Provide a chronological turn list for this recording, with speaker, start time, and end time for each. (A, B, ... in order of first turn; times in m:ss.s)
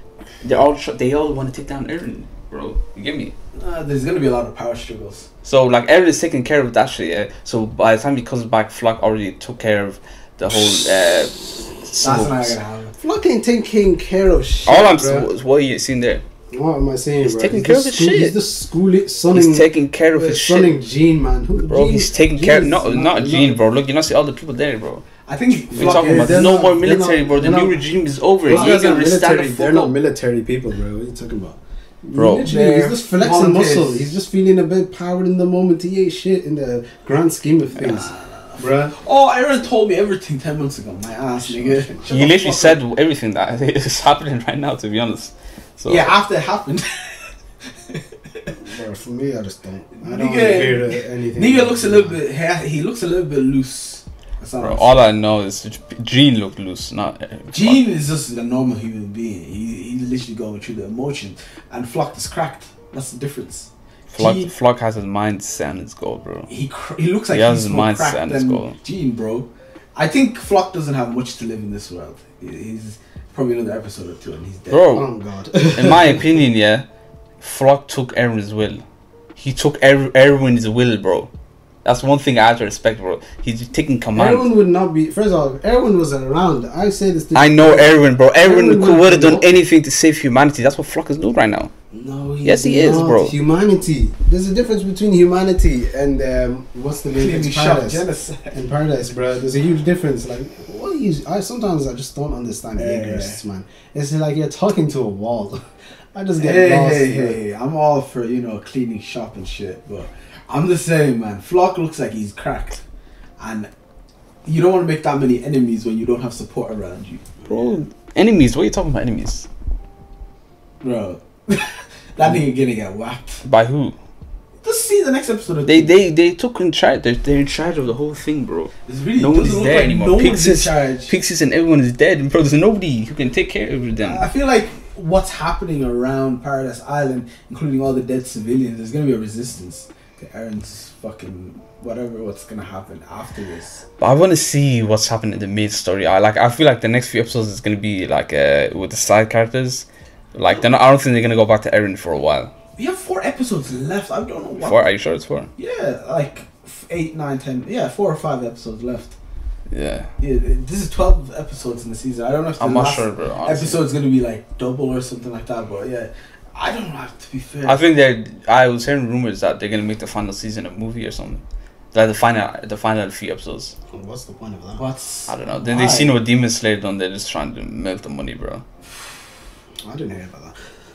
0:00.4-0:03.3 A
0:03.6-0:05.3 B
0:05.4-0:12.6 A
0:12.0-0:12.9 B
0:13.0-0:15.3 C
0:14.6-0:16.2 A
0:16.5-0:23.6 C
0:17.2-0:18.4 A
0:19.3-0:20.8 A
0:21.6-0:25.0 A
0:25.2-0:26.5 B
0:25.7-0:27.9 C
0:25.7-0:29.9 A
0:28.4-0:38.9 C
0:28.5-0:29.0 B
0:32.1-0:32.5 A
0:32.3-0:34.1 B
0:37.8-0:42.8 B
0:41.2-0:42.3 C
0:42.1-0:46.1 A
0:45.8-0:47.3 B
0:47.9-0:48.5 B
0:48.6-0:52.2 C
0:50.0-0:55.1 B
0:54.6-0:57.8 A
0:57.5-1:04.5 B
1:04.1-1:06.5 A
1:06.5-1:14.9 B
1:07.3-1:08.8 A
1:14.7-1:15.1 A
1:14.9-1:16.2 C
1:15.7-1:16.8 A
1:17.4-1:18.8 A
1:19.4-1:21.3 A
1:21.8-1:24.5 A
1:24.1-1:29.4 C
1:27.3-1:31.7 A
1:31.9-1:45.6 C
1:32.4-1:33.3 A
1:37.1-1:38.6 B
1:42.8-1:43.4 B
1:46.1-1:47.4 C
1:46.4-1:52.8 B
1:53.4-1:53.7 B
1:54.4-1:57.2 B
1:57.4-1:59.5 A
2:00.8-2:03.4 B
2:03.4-2:04.0 A
2:04.6-2:05.9 B
2:05.6-2:14.3 A
2:08.8-2:11.1 B
2:14.0-2:23.8 B
2:24.0-2:32.5 A
2:32.8-2:34.9 B
2:34.6-2:35.5 A
2:35.6-2:39.1 B
2:39.7-2:40.1 A
2:40.2-2:47.8 B
2:42.6-2:43.8 A
2:47.6-2:53.7 A
2:53.9-2:54.8 C
2:54.8-2:56.2 B
2:55.3-2:58.6 A
2:59.8-3:00.5 C